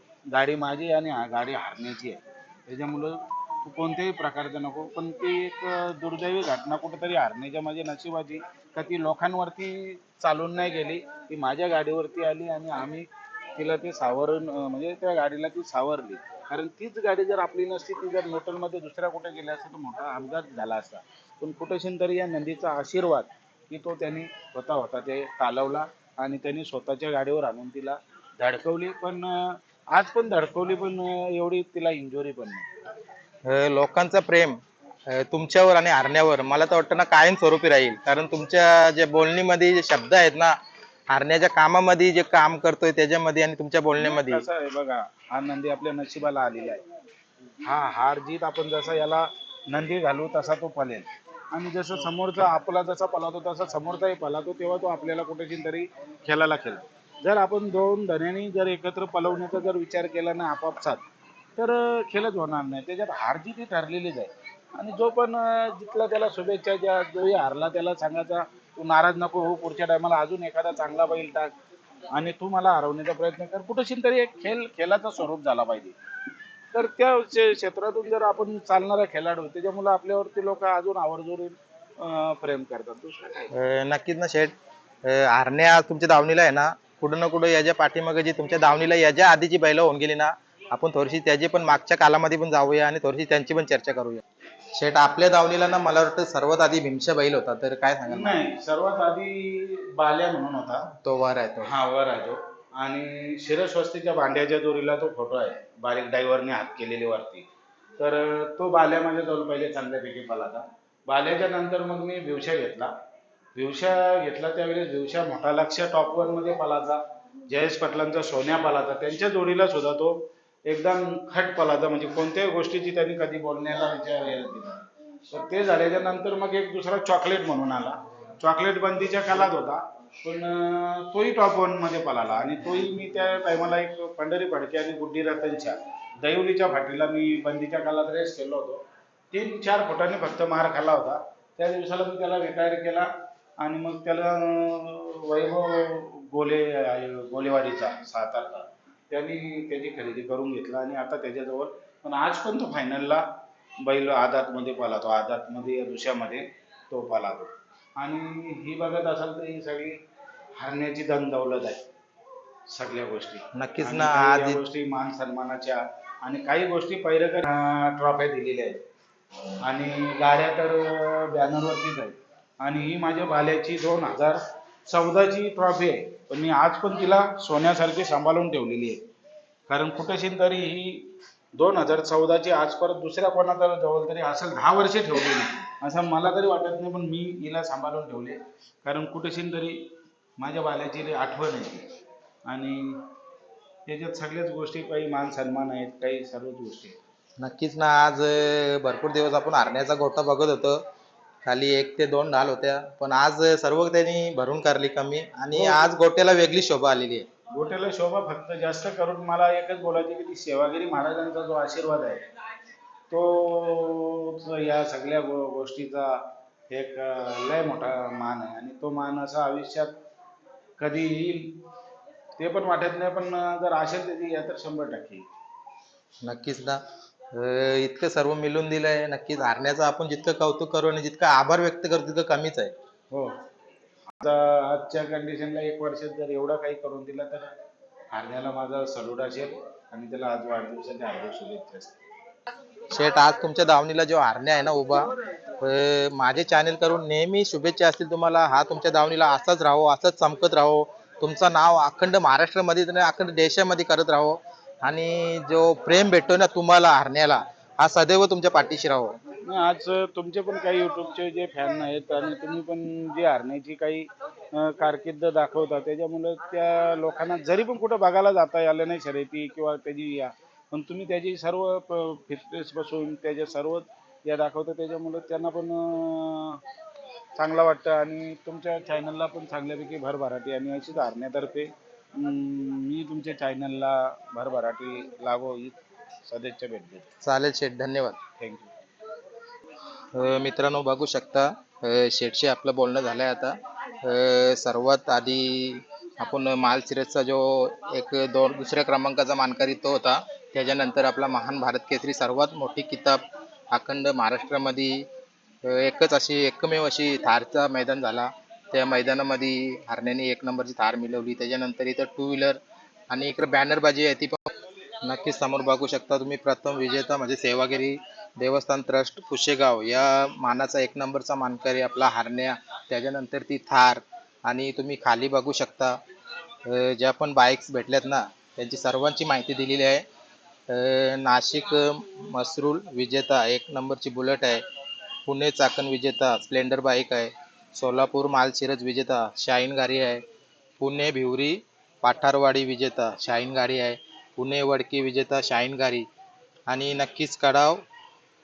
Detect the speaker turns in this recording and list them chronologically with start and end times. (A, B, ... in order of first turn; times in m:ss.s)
0:00.3-0:32.7 A
0:33.5-0:34.6 B
0:35.1-0:40.5 B
0:41.1-0:44.4 B
0:44.0-0:46.8 A
0:47.6-1:01.0 A
1:01.6-1:11.5 A
1:12.1-1:16.0 A
1:16.7-1:23.5 A
1:23.5-1:24.5 B
1:25.0-1:34.2 B
1:34.8-1:38.4 B
1:38.1-1:40.9 A
1:41.0-1:41.7 B
1:41.6-1:47.5 A
1:48.0-1:52.9 A
1:53.6-2:33.2 A
2:33.8-2:40.0 A
2:40.6-2:41.8 A
2:42.7-2:48.8 A
2:43.6-2:44.6 B
2:49.6-2:59.0 A
2:59.7-3:09.8 A
3:10.4-3:11.9 A
3:12.5-3:13.1 A
3:13.9-3:17.0 A
3:17.4-3:20.8 B
3:21.4-3:27.3 B
3:25.6-3:25.9 A
3:27.5-3:32.2 A
3:33.1-3:40.0 A
3:40.8-3:41.6 A
3:42.4-3:45.2 A
3:46.2-3:46.8 B
3:47.3-3:52.7 B
3:53.1-3:53.4 A
3:54.2-3:57.5 A
3:58.1-4:02.0 A
4:02.9-4:05.1 B
4:05.6-4:19.2 B
4:19.5-4:36.6 A
4:37.4-4:47.1 A
4:47.2-4:48.2 B
4:48.4-4:48.7 A
4:50.1-5:03.2 B
5:03.7-5:05.1 B
5:05.6-5:12.6 B
5:13.1-5:14.5 B
5:15.0-5:26.0 B
5:26.6-5:30.0 B
5:30.7-5:34.6 B
5:35.3-5:40.2 B
5:40.8-5:46.1 B
5:46.7-5:47.8 B